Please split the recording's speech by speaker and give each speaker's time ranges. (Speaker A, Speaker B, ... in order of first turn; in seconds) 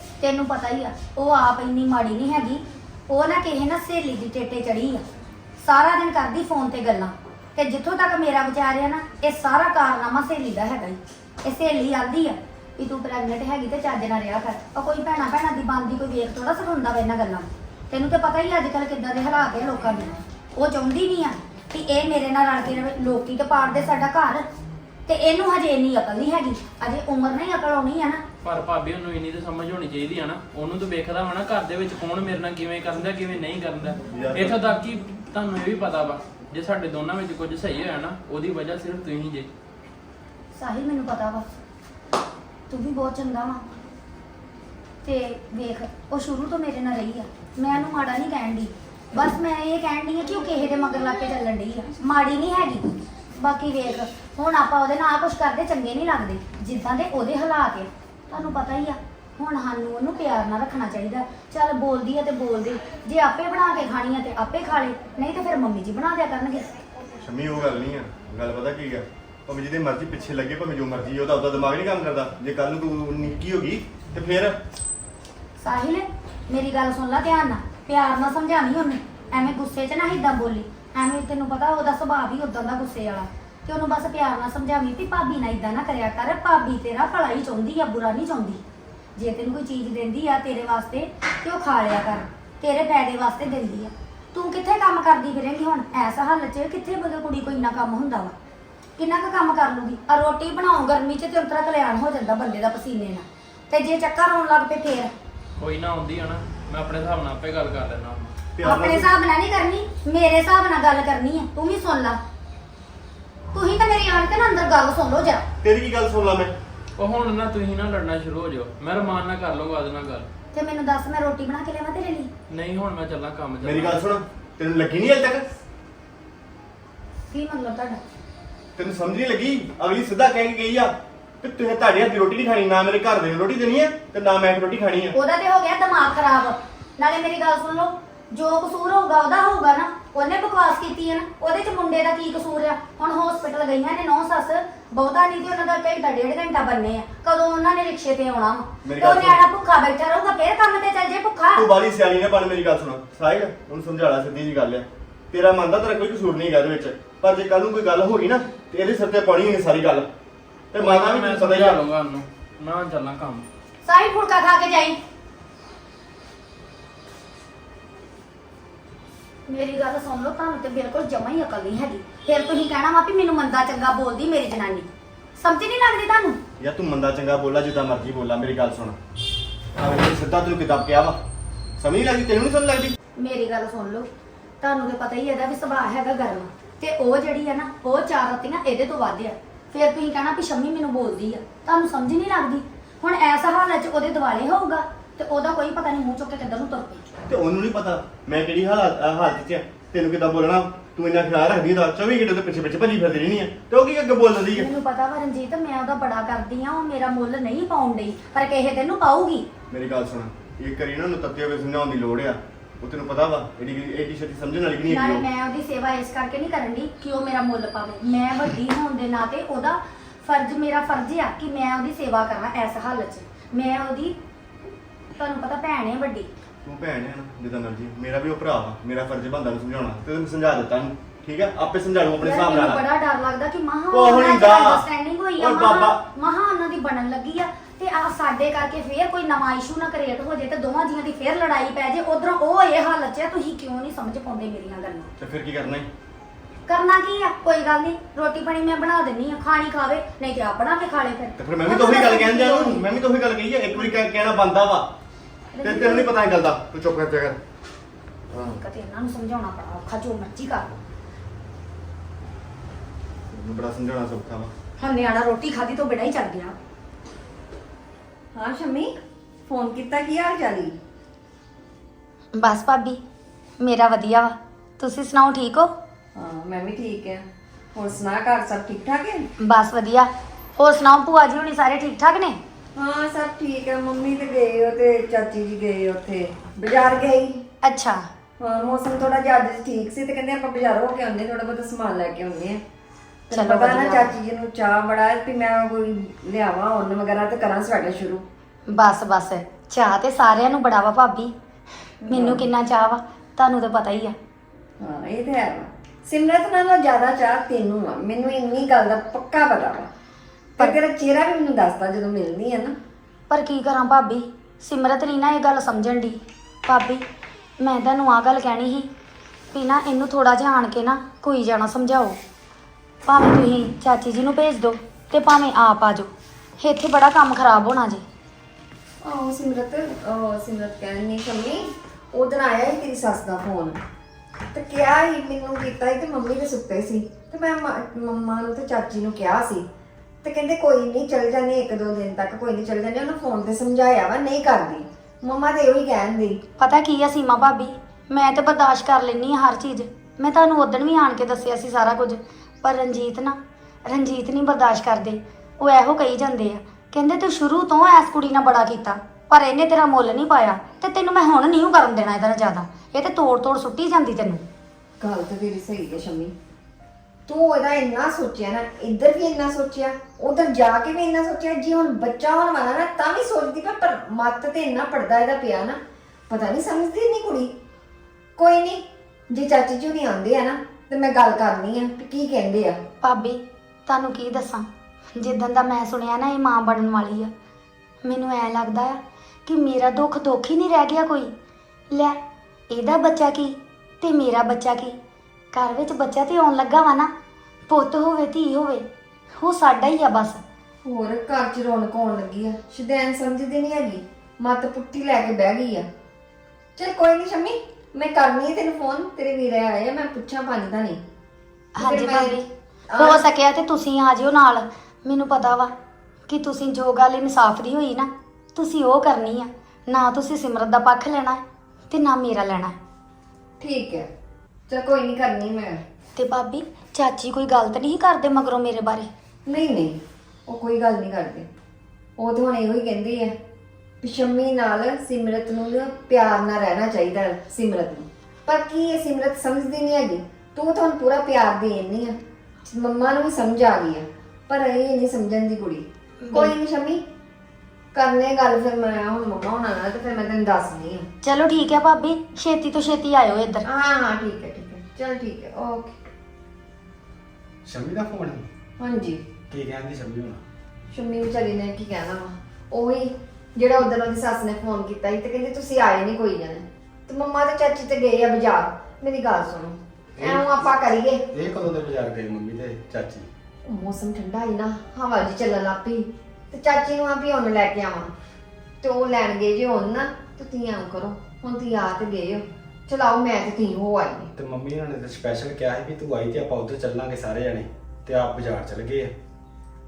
Speaker A: 0.2-5.0, 5.6-24.5, 25.1-28.2, 40.5-41.5, 42.7-43.6, 45.0-66.7, 75.6-88.6, 89.2-98.4, 99.0-105.1, 108.6-112.2, 113.5-115.5, 120.5-122.3, 127.3-128.0, 135.1-151.7, 163.8-165.0, 169.5-176.4, 183.2-184.1, 184.6-197.1, 204.5-209.5, 214.9-224.2, 225.2-226.3, 232.2-245.1, 246.7-252.8, 255.5-256.1, 258.4-260.7, 264.8-266.6, 272.4-273.0, 273.6-275.7, 279.4-282.4, 287.6-288.1, 293.3-294.1, 298.7-301.3, 302.1-304.1, 313.3-317.0, 317.6-318.9, 319.5-322.2, 323.1-328.0, 346.6-364.4, 383.0-384.6, 385.2-387.3, 388.0-391.3, 391.9-392.2, 392.7-394.9, 395.5-397.1, 397.7-398.9, 399.4-400.4, 411.8-412.5, 413.0-415.7, 416.3-422.8, 426.2-429.1, 446.2-446.5, 451.2-453.7
Speaker B: 28.4-39.5, 105.6-108.3, 117.0-120.3, 122.5-124.1, 160.8-163.5
Speaker C: 34.1-34.6, 67.2-74.6, 108.6-109.1, 115.6-116.5, 123.6-125.6, 128.8-135.2, 148.8-149.4, 151.6-160.1, 160.7-161.8, 176.6-179.0, 179.8-181.2, 181.8-182.9, 197.3-204.7, 209.7-215.2, 226.6-232.8, 233.9-234.8, 235.4-236.1, 245.2-245.9, 251.4-254.9, 255.6-257.4, 258.3-258.6, 263.3-264.5
Speaker D: 268.3-270.8, 276.1-279.3, 282.8-287.4, 288.4-292.6, 293.3-298.2, 302.1-302.5, 304.8-309.9, 310.6-312.8, 329.0-333.8, 334.5-339.7, 340.2-346.4, 365.0-366.4, 367.3-377.5, 378.4-382.8, 400.8-405.9, 406.8-411.0, 411.8-412.4, 412.9-413.2, 423.6-424.1, 424.7-425.8, 429.5-431.5, 432.2-433.4, 434.0-447.0, 447.9-451.1, 453.7-456.0, 458.8-459.3, 460.9-471.2, 473.7-478.1, 478.8-484.3
Speaker E: 457.6-458.5, 459.5-460.4, 470.2-470.7, 471.3-473.3, 484.4-489.1